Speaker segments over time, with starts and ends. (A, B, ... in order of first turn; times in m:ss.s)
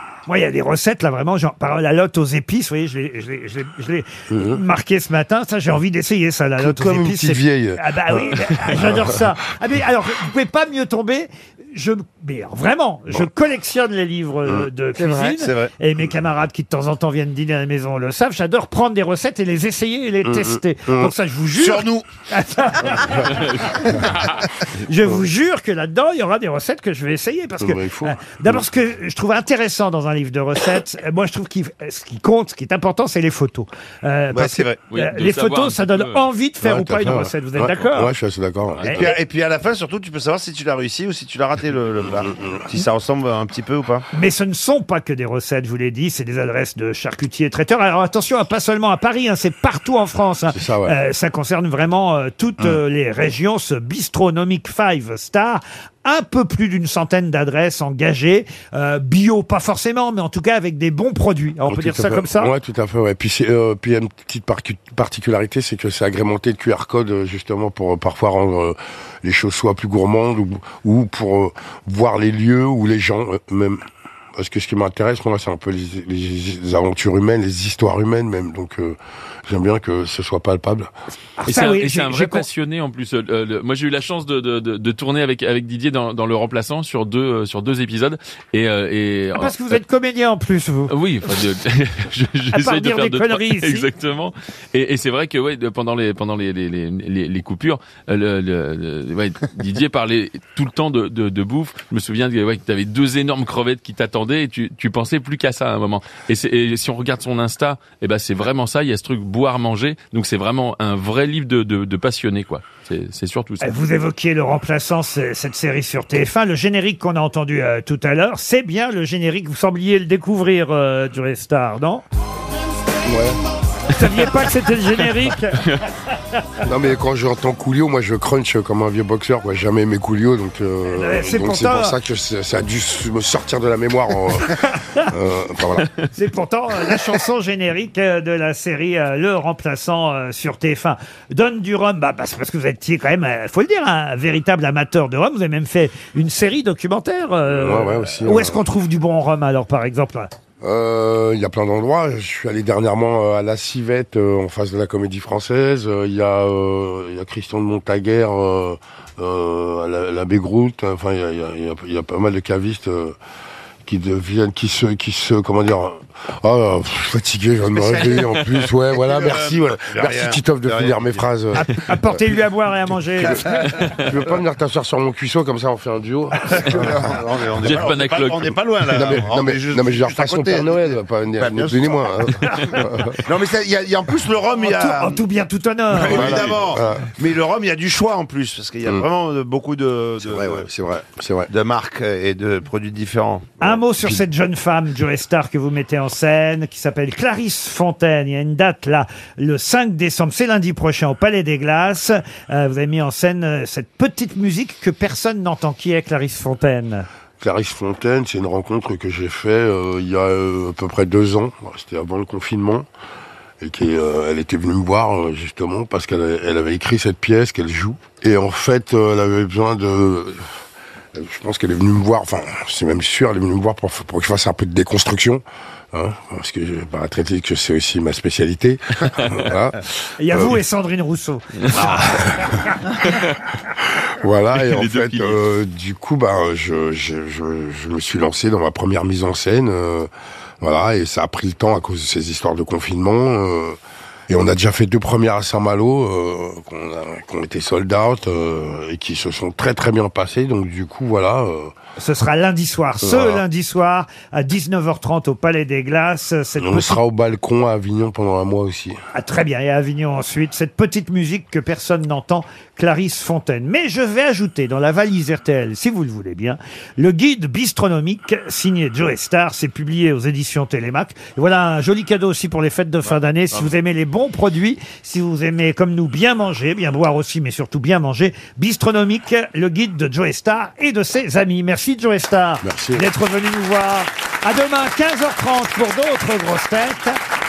0:00.3-0:23.9 A
0:04.3-0:04.6 B
0:06.6-0:09.2 B
0:15.0-0:15.7 C
0:20.2-0:21.1 B
0:21.5-0:22.1 C
0:22.9-0:23.4 B
0:23.4-0:23.7 D
0:24.8-0:38.1 A
0:27.6-0:28.7 B
0:34.3-0:34.8 C
0:34.9-0:36.2 D
0:36.6-0:39.0 B
0:38.8-0:39.1 A
0:38.9-0:44.1 C
0:44.1-1:02.5 A
0:50.5-0:51.0 B
1:01.7-1:13.8 B
1:14.4-1:20.9 B
1:21.4-1:22.5 A
1:21.5-1:29.8 D
1:29.4-1:30.9 A
1:30.9-1:53.7 D
1:32.5-1:33.9 A
1:53.6-2:02.0 A
2:03.0-2:03.4 B
2:03.9-2:05.6 A
2:06.6-2:15.9 B
2:10.9-2:12.0 A
2:16.1-2:30.3 A
2:27.5-2:28.6 B
2:30.6-2:43.2 B
2:43.9-2:52.3 B
2:47.6-2:48.4 C
2:48.9-2:51.3 C
2:51.6-2:53.7 A
2:53.2-2:57.1 B
2:53.6-2:54.0 D
2:56.5-3:02.3 C
2:57.6-2:58.6 D
2:58.9-3:03.2 B
3:03.2-3:05.2 C
3:04.6-3:06.3 A
3:05.9-3:10.7 C
3:06.1-3:07.1 B
3:10.2-3:11.5 B
3:11.5-3:13.7 C
3:13.6-3:27.1 A
3:14.0-3:14.2 B
3:27.4-3:32.9 B
3:33.6-3:40.4 B
3:41.2-3:50.6 B
3:50.2-3:53.1 A
3:51.8-3:52.6 B
3:53.0-3:53.4 D
3:53.9-4:00.1 B
3:54.5-3:55.4 D
4:00.6-4:03.8 B
4:04.3-4:11.7 B
4:12.0-4:17.0 A
4:13.0-4:13.4 B
4:16.6-4:19.0 B
4:19.1-4:47.2 A
4:42.6-4:43.1 B